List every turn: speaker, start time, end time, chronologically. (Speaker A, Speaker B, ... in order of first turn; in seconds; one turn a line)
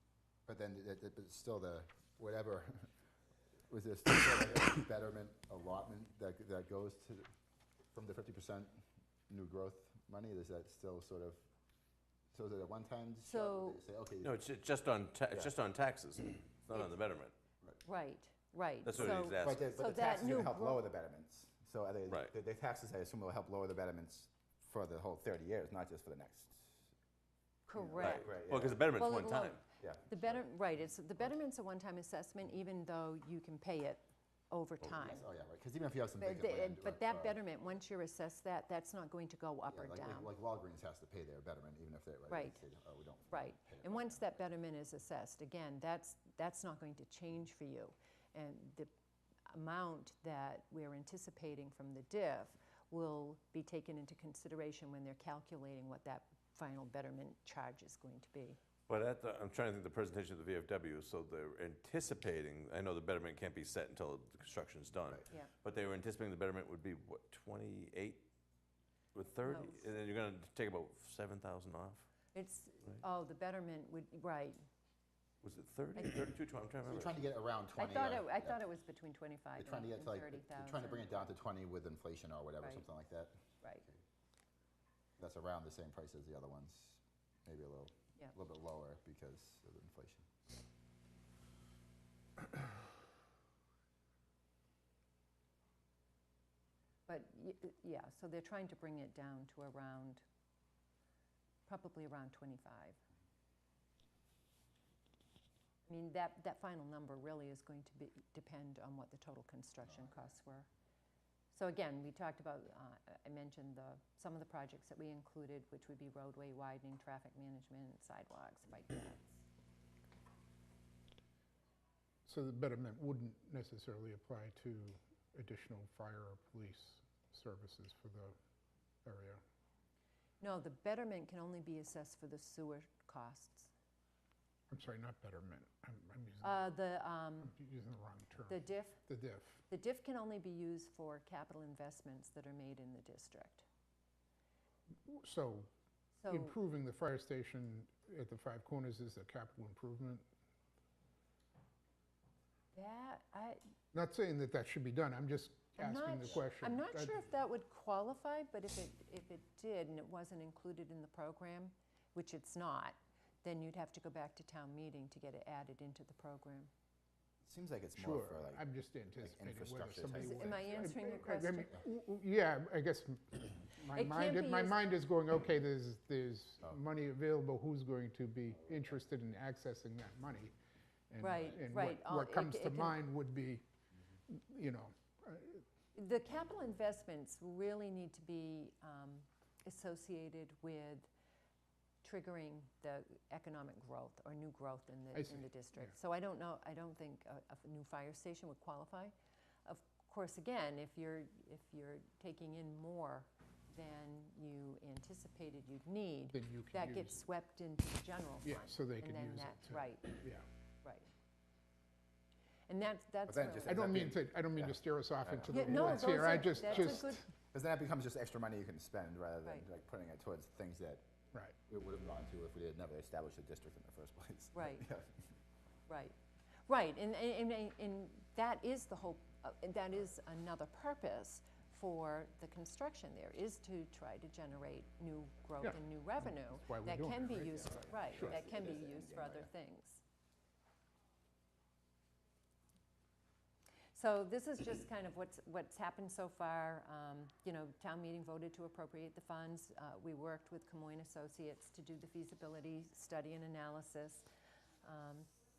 Speaker A: 0.5-2.9
Speaker A: 3.7-7.3
Speaker A: 7.9-11.4
Speaker A: 12.3-14.3
Speaker B: 13.2-13.8
Speaker C: 14.2-17.3
Speaker B: 17.8-20.8
Speaker C: 18.8-19.7
Speaker A: 18.9-26.9
Speaker B: 27.7-28.3
Speaker A: 27.7-28.9
Speaker C: 28.0-29.6
Speaker B: 28.9-35.2
Speaker A: 29.8-30.4
Speaker A: 35.0-37.4
Speaker B: 36.2-40.3
Speaker A: 39.7-44.2
Speaker B: 42.3-42.6
Speaker B: 43.3-48.9
Speaker B: 49.5-58.6
Speaker C: 58.9-68.3
Speaker C: 69.1-72.1
Speaker B: 69.5-69.9
Speaker B: 72.3-74.6
Speaker C: 75.4-77.2
Speaker A: 76.8-78.6
Speaker B: 77.8-81.3
Speaker A: 79.6-84.0
Speaker A: 85.2-90.3
Speaker B: 97.1-100.2
Speaker B: 101.7-103.0
Speaker B: 105.9-110.7
Speaker B: 111.5-119.5
Speaker D: 122.2-128.3
Speaker D: 129.0-129.4
Speaker B: 130.4-133.7
Speaker D: 134.7-136.7
Speaker B: 136.4-137.5
Speaker D: 137.4-139.6
Speaker B: 138.5-139.0
Speaker B: 139.7-143.6
Speaker D: 145.0-145.7
Speaker B: 146.2-146.5
Speaker D: 146.3-150.2
Speaker B: 152.7-153.6
Speaker D: 153.9-157.2
Speaker B: 155.8-166.7
Speaker A: 167.4-168.6
Speaker D: 168.0-180.5
Speaker A: 169.2-170.7
Speaker B: 170.2-171.8
Speaker B: 173.9-174.8
Speaker D: 181.1-183.6
Speaker B: 181.2-183.0
Speaker D: 184.3-185.6
Speaker B: 185.9-191.1
Speaker B: 192.0-199.1
Speaker D: 195.1-195.9
Speaker B: 199.6-210.2
Speaker D: 206.3-207.2
Speaker D: 208.4-210.4
Speaker B: 210.8-211.1
Speaker B: 212.7-213.9
Speaker A: 213.3-221.1
Speaker D: 213.6-217.3
Speaker B: 215.5-217.2
Speaker A: 221.7-225.3
Speaker B: 224.5-224.9
Speaker B: 225.9-226.2
Speaker B: 226.7-240.0
Speaker D: 235.6-238.4
Speaker A: 237.6-239.5
Speaker B: 243.9-254.2
Speaker B: 254.8-255.3